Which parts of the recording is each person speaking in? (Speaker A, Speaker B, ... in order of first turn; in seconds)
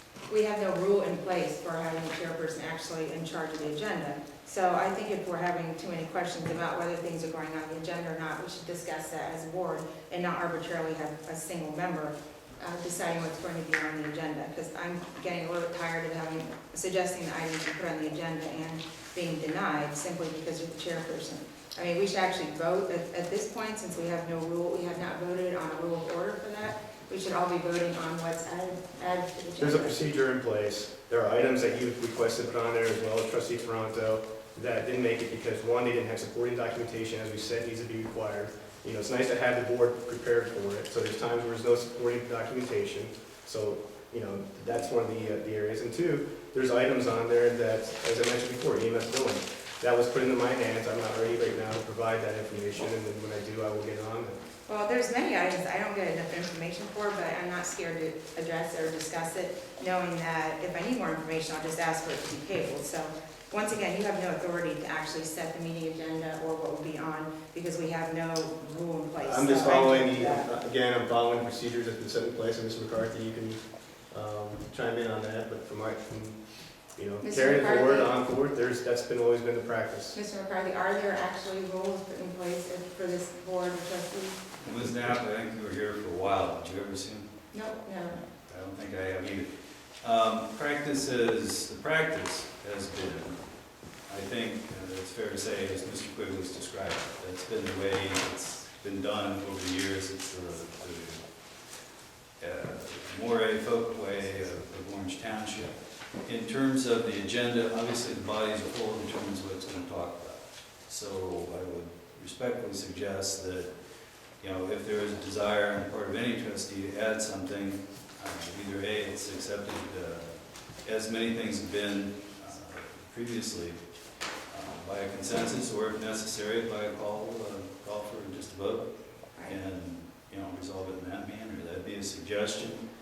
Speaker A: 0.3-30.0, 54.7-70.5, 77.2-78.2, 80.1-84.4, 87.5-88.2
Speaker B: 29.6-54.4, 69.2-80.2
Speaker C: 84.6-87.3, 88.5-101.2, 102.4-123.8, 124.5-132.9